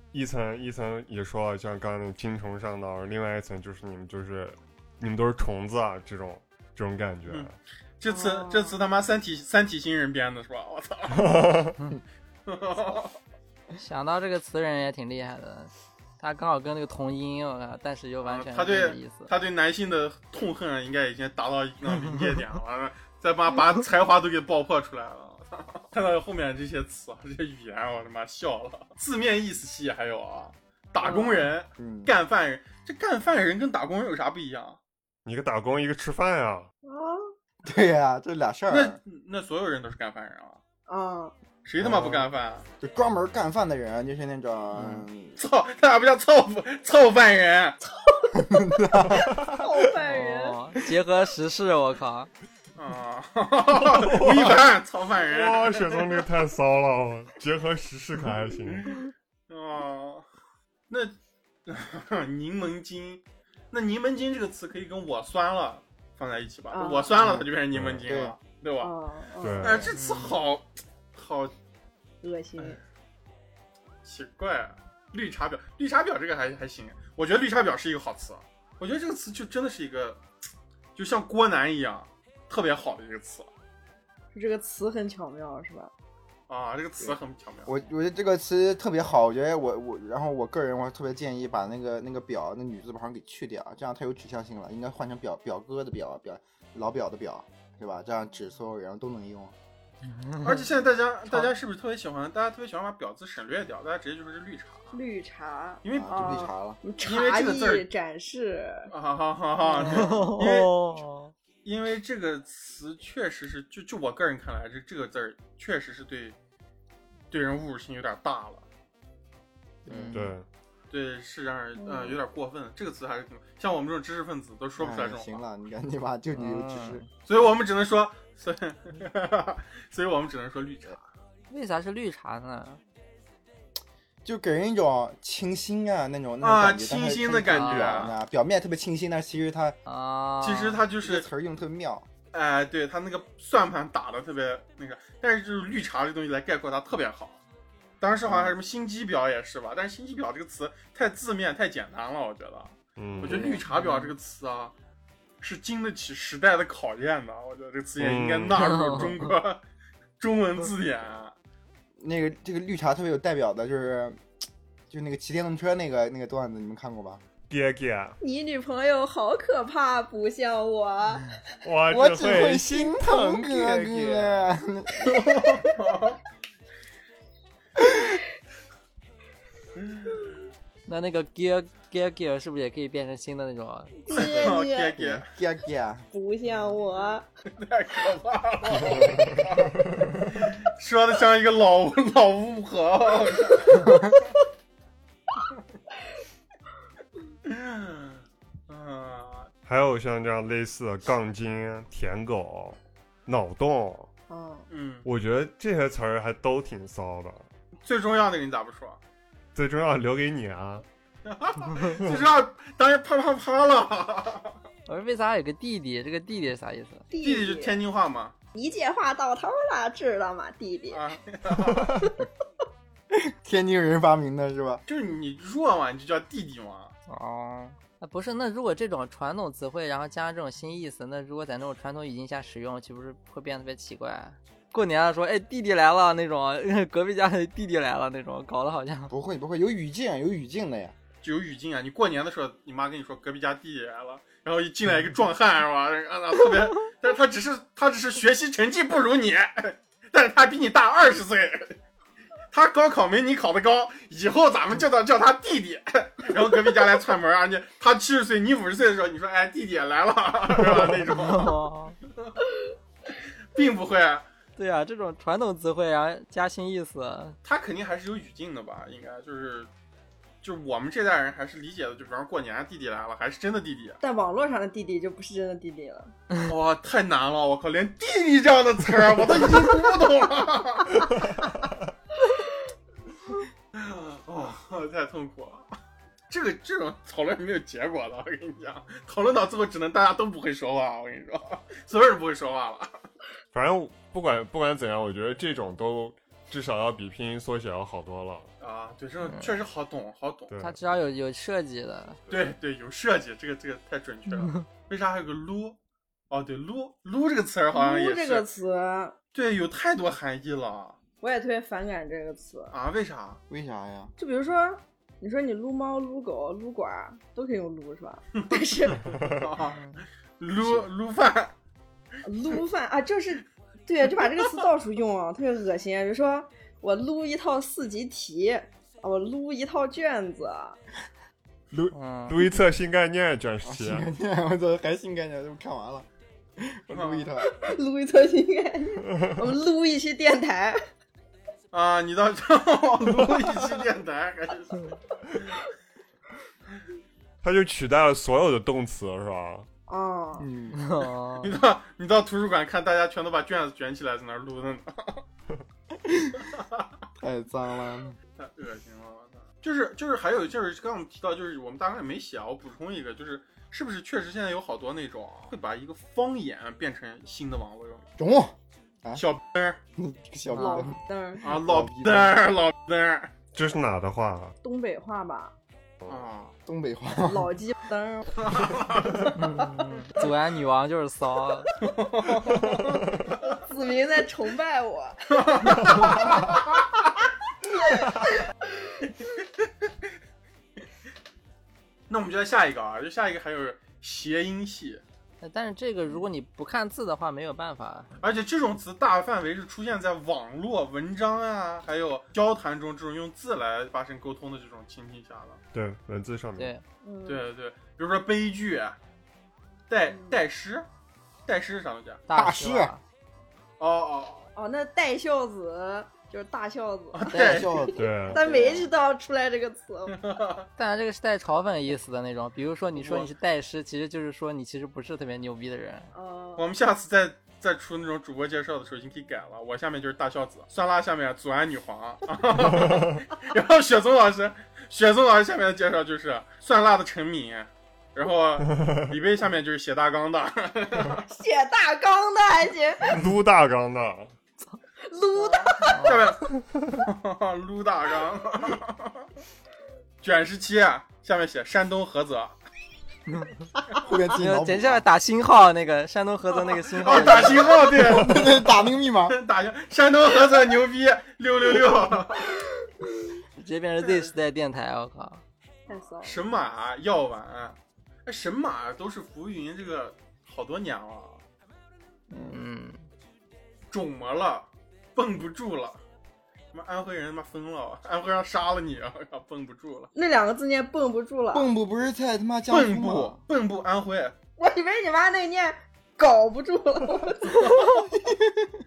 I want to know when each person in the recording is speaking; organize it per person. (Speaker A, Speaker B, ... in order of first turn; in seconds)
Speaker A: 0.1-7.5, 11.1-11.8, 35.3-36.7, 49.1-49.7, 53.8-54.6, 55.2-59.0, 67.7-68.1, 69.4-70.0, 120.1-120.5, 153.0-153.6, 158.0-159.0, 167.5-168.2, 171.6-174.4, 188.8-190.2, 199.7-204.1, 205.0-207.5, 209.6-210.8, 293.5-298.5, 300.5-300.8, 331.7-334.1, 339.1-339.4, 347.4-349.7, 373.5-374.6, 405.7-406.7, 418.0-418.5, 443.1-444.3
Speaker B: 7.3-11.3, 12.5-13.2, 18.2-34.8, 38.7-40.6, 41.6-42.7, 45.4-47.8, 52.8-56.3, 58.7-60.2, 60.9-68.9, 69.6-71.5, 74.0-80.2, 81.0-83.5, 86.5-87.7, 100.4-105.0, 105.8-106.5, 107.0-107.9, 108.9-110.8, 111.7-116.4, 117.3-118.7, 120.9-125.4, 127.2-131.0, 136.4-138.2, 140.4-141.3, 142.3-147.4, 148.0-154.7, 155.4-159.6, 160.2-161.3, 175.6-176.2, 179.8-180.3, 184.1-185.3, 187.5-189.8, 190.3-193.9, 197.4-199.5, 204.7-205.1, 207.8-209.0, 211.2-214.6, 217.2-218.3, 220.9-221.9, 224.9-226.9, 241.2-251.8, 252.5-261.6, 263.6-264.3, 267.4-269.7, 270.4-274.0, 276.5-281.2, 283.7-285.7, 286.3-292.9, 298.6-300.5, 302.3-305.8, 306.3-308.5, 309.3-311.0, 312.7-313.4, 319.3-319.8, 320.4-321.5, 336.9-337.3, 341.7-344.8, 351.4-355.2, 356.5-356.9, 358.4-368.1, 369.1-369.8, 371.4-373.3, 376.1-376.6, 378.4-379.3, 381.8-383.5, 385.3-386.8, 392.1-395.0, 398.2-405.6, 407.3-409.0, 409.9-410.9, 411.5-412.2, 413.8-414.5, 417.1-417.9, 420.1-420.7, 423.0-423.3, 426.6-441.3, 446.0-446.5, 447.0-449.1, 450.2-452.6, 457.0-458.7, 459.3-462.5, 466.2-471.4, 473.9-476.0, 476.7-480.1, 482.7-484.4, 487.4-488.1
Speaker C: 8.1-8.8, 31.0-31.5, 36.9-37.2, 40.9-41.3, 47.9-48.8, 49.4-50.6, 66.7-67.4, 68.8-69.9, 72.2-72.8, 84.3-85.9, 104.9-108.9, 109.7-110.1, 121.8-122.2, 168.2-171.4, 184.0-185.0, 186.1-187.2, 204.3-204.7, 217.1-217.8, 218.5-221.1, 274.0-276.1, 307.7-309.2, 311.2-312.7, 314.2-319.1, 322.2-330.8, 337.4-340.8, 349.9-350.5, 370.5-371.6, 374.6-375.5, 377.3-379.2, 383.4-386.4, 407.0-407.5, 410.1-410.4, 414.6-420.2, 426.1-426.7, 441.3-443.2, 445.1-446.1, 465.9-466.4, 480.1-481.7, 484.6-487.9
Speaker D: 13.8-19.3, 50.0-52.3, 70.0-70.3, 100.1-100.6, 109.8-111.3, 119.9-120.3, 126.3-127.0, 131.5-132.8, 137.5-138.0, 139.9-140.8, 153.7-154.1, 158.5-159.3, 180.9-184.2, 214.9-217.1, 227.1-239.1, 260.8-262.0, 264.6-267.4, 299.2-299.6, 300.6-302.2, 319.7-320.0, 331.9-332.4, 350.7-351.5, 370.6-370.8, 379.3-381.7, 395.4-398.2, 406.6-406.8, 412.3-413.0, 420.8-426.1, 445.8-446.3, 453.3-453.6, 454.4-457.9, 463.6-465.4, 472.4-473.1
Speaker E: 31.8-32.1, 37.6-39.0, 41.8-42.3, 42.8-45.4, 48.3-49.3, 68.0-68.4, 87.0-99.5, 105.9-106.8, 119.9-120.3, 124.8-127.0, 134.2-139.8, 141.0-142.1, 148.2-148.6, 153.2-153.6, 162.0-164.2, 164.9-167.2, 171.9-175.6, 185.0-186.1, 193.9-194.1, 223.1-224.8, 239.1-240.9, 313.5-314.1, 333.6-337.5, 350.4-350.8, 356.0-356.5, 357.2-358.2, 368.2-369.2, 370.0-371.0, 371.5-372.3, 376.7-377.6, 412.3-412.9, 417.3-418.9, 453.9-455.1, 457.8-459.4, 472.3-472.6, 481.5-483.4, 488.0-488.7